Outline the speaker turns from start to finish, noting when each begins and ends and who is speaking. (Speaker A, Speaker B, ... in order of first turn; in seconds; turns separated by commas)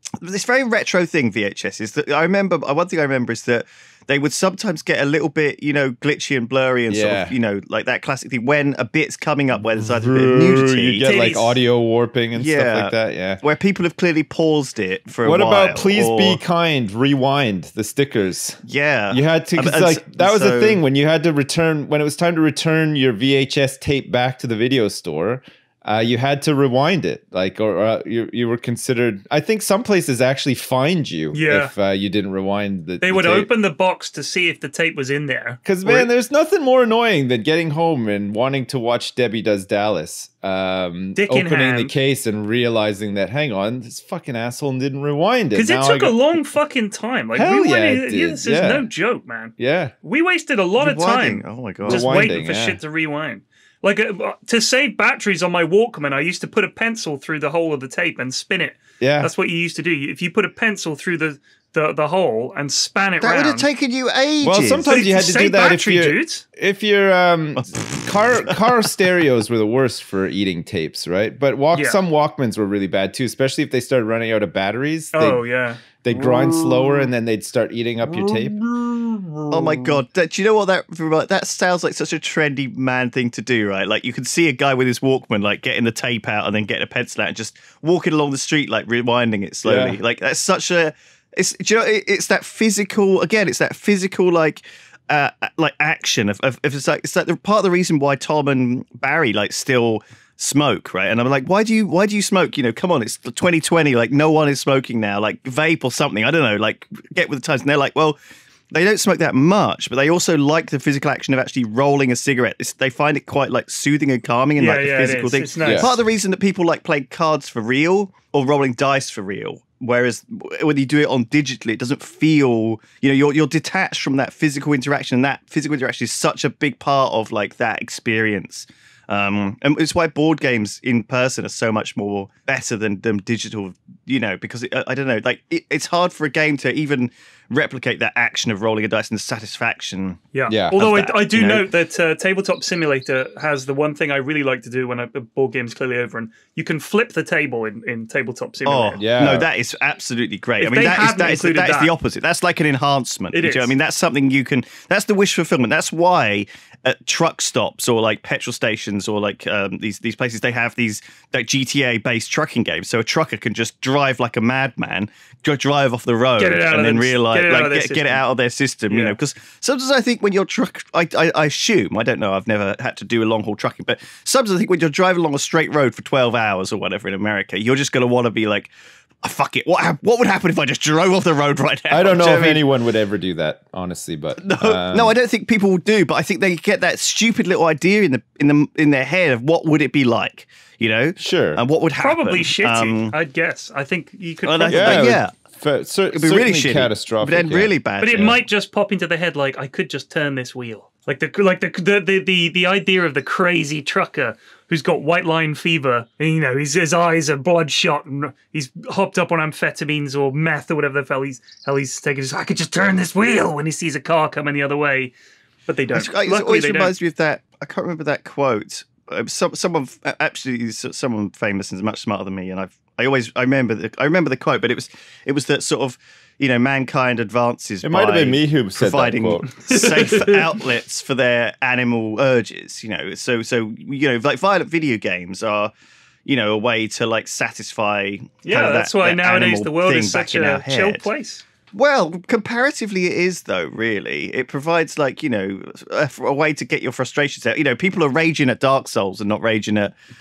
Speaker A: 0.2-11.1, Speaker B: 6.9-7.3, Speaker B: 9.8-13.4, Speaker C: 11.0-11.6, Speaker A: 12.3-16.4, Speaker B: 15.2-18.6, Speaker A: 18.6-20.8, Speaker B: 19.1-33.5, Speaker C: 31.3-31.7, Speaker C: 33.0-36.1, Speaker B: 35.6-46.2, Speaker C: 41.2-41.9, Speaker C: 45.5-63.7, Speaker B: 47.3-48.9, Speaker B: 49.6-49.9, Speaker A: 50.8-52.1, Speaker B: 51.9-52.8, Speaker B: 59.0-59.3, Speaker A: 63.2-65.0, Speaker B: 64.4-75.4, Speaker C: 64.9-66.4, Speaker A: 67.5-68.6, Speaker C: 71.7-72.0, Speaker C: 75.1-75.8, Speaker B: 76.0-79.8, Speaker C: 76.5-76.8, Speaker C: 78.0-78.5, Speaker A: 79.5-108.2, Speaker B: 89.6-90.0, Speaker A: 108.7-141.7, Speaker C: 114.6-115.9, Speaker B: 115.6-115.9, Speaker C: 140.3-149.0, Speaker B: 140.5-141.0, Speaker A: 148.6-178.7, Speaker B: 149.0-149.5, Speaker C: 150.6-151.9, Speaker C: 153.3-153.7, Speaker C: 166.4-168.2, Speaker C: 168.9-169.2, Speaker A: 179.2-182.6, Speaker B: 181.9-185.1, Speaker A: 184.4-193.1, Speaker B: 191.2-191.6, Speaker C: 192.0-195.1, Speaker A: 194.4-195.3, Speaker B: 194.7-197.7, Speaker A: 196.1-198.4, Speaker C: 198.0-215.1, Speaker C: 215.7-216.9, Speaker A: 215.9-235.7, Speaker B: 227.8-229.5, Speaker C: 229.7-230.6, Speaker A: 236.2-241.1, Speaker C: 238.4-241.4, Speaker A: 241.7-249.9